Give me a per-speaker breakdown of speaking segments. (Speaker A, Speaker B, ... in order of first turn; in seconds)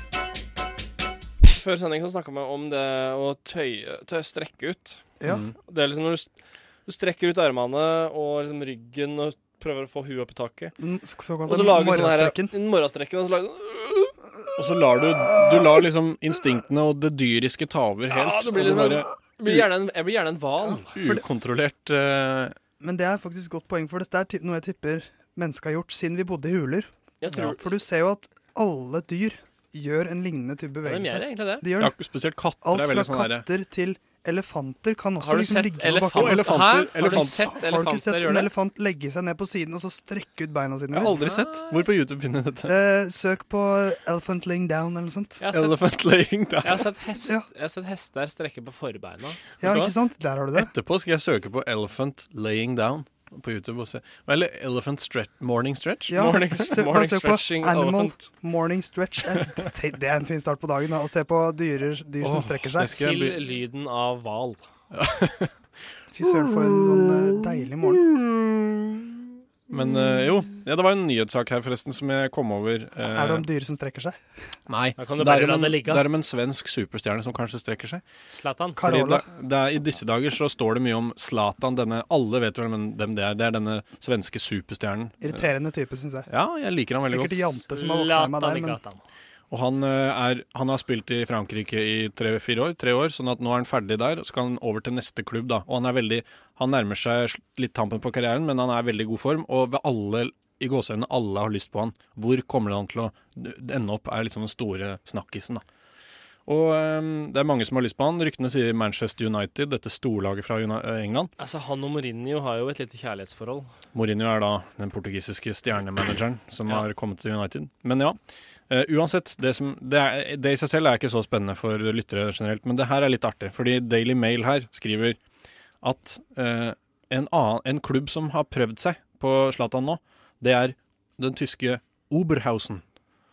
Speaker A: 1.5-5.0, 5.7-6.3, 6.8-10.7, 11.4-14.1, 18.1-20.9, 27.2-27.7, 30.8-31.6, 35.2-38.5, 41.0-41.8, 45.4-45.8, 46.6-49.8, 56.1-58.2, 62.9-64.6, 75.0-76.0, 78.3-78.8, 87.7-89.0, 111.4-113.7
Speaker B: 5.3-5.5, 14.6-19.7, 20.9-22.6, 31.8-33.4, 36.1-37.5, 40.9-42.7, 45.5-46.9, 50.5-56.5, 62.2-63.4, 64.9-65.5, 66.2-69.1, 69.7-73.5, 74.7-78.0, 78.8-85.4, 86.3-87.5, 89.5-105.6, 106.5-111.3, 113.9-118.2, 118.7-125.2, 125.8-132.8
Speaker C: 10.8-12.5, 22.8-31.9, 32.6-41.2, 42.6-45.4, 49.6-50.7, 56.1-63.0, 66.1-68.1, 73.0-74.2, 78.8-79.2, 85.2-86.3, 87.1-88.8